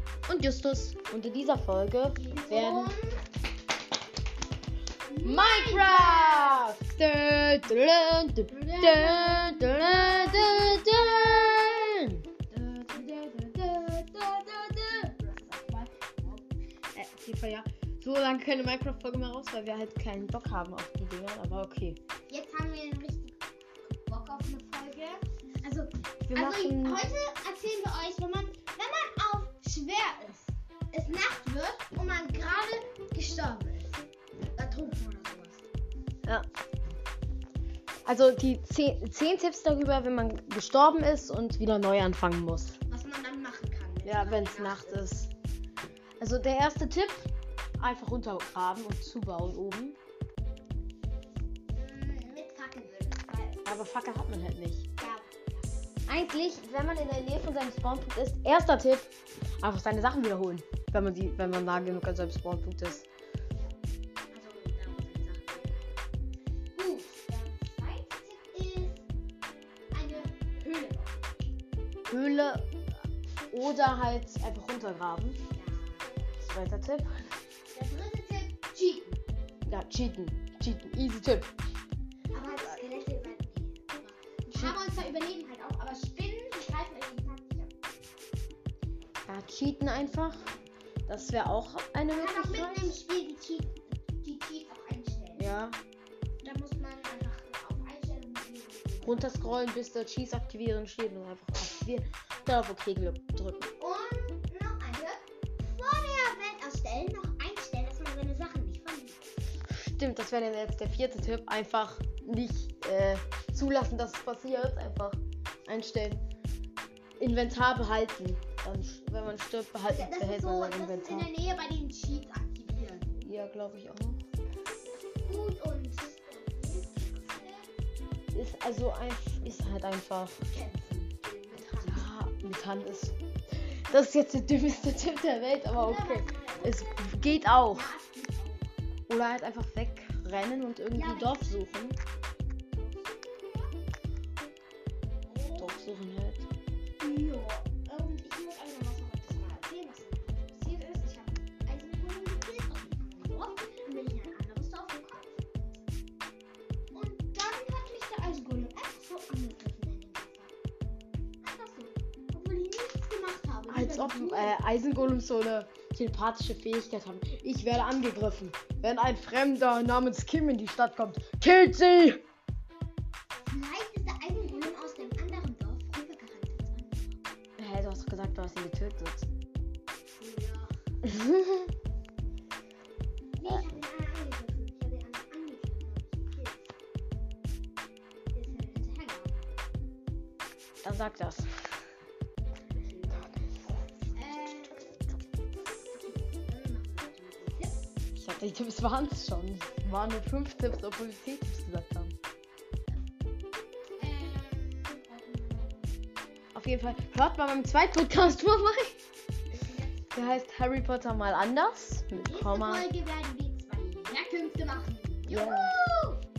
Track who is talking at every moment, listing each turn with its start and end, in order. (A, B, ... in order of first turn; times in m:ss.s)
0:00.3-0:02.9 A
0:02.2-0:03.3 B
0:05.1-0:06.6 B
0:05.2-0:12.2 A
0:08.5-0:10.7 B
0:12.5-0:16.4 B
0:16.9-0:22.0 A
0:22.3-0:34.0 B
0:26.3-0:27.0 A
0:34.6-0:35.6 B
0:38.0-0:42.8 A
0:42.9-0:45.1 B
0:44.0-0:45.3 A
0:46.2-0:47.3 A
0:47.8-0:50.0 A
0:51.7-0:53.8 B
0:53.6-0:54.8 A
0:55.0-0:55.7 B
0:56.1-1:03.1 A
1:04.3-1:05.8 B
1:06.8-1:09.0 B
1:09.9-1:11.4 B
1:12.1-1:12.7 A
1:13.5-1:15.4 A
1:15.5-1:16.2 B
1:16.4-1:17.1 A
1:17.7-1:19.2 B
1:19.7-1:21.5 A
1:22.3-1:27.7 B
1:24.5-1:24.8 A
1:29.3-1:30.4 A
1:31.1-1:32.9 A
1:32.1-1:35.4 B
1:35.4-1:35.8 A
1:36.4-1:39.5 B
1:39.0-1:43.7 A
1:43.8-1:49.2 B
1:49.7-1:56.2 A
1:57.2-2:01.3 A
1:59.9-2:03.2 B
2:03.2-2:04.2 A
2:05.2-2:07.7 B
2:08.3-2:10.4 A
2:10.5-2:12.1 B
2:11.8-2:17.9 A
2:15.7-2:18.8 B
2:19.1-2:22.0 A
2:20.9-2:21.7 B
2:22.7-2:23.7 B
2:25.3-2:25.8 B
2:25.6-2:26.4 A
2:27.0-2:35.4 B
2:36.9-2:40.5 B
2:41.4-2:44.6 B
2:43.7-2:52.2 A
2:53.5-2:57.2 B
2:57.6-2:59.3 A
3:00.2-3:00.7 B
3:01.0-3:01.7 A
3:03.4-3:06.7 B
3:08.3-3:09.4 B
3:10.8-3:11.5 A
3:12.7-3:13.3 B
3:14.1-3:14.9 B
3:15.9-3:17.8 B
3:18.1-3:22.1 A
3:24.0-3:25.8 B
3:26.5-3:29.0 A
3:29.5-3:30.4 B
3:30.1-3:32.9 A
3:32.2-3:36.2 B
3:35.3-3:35.7 A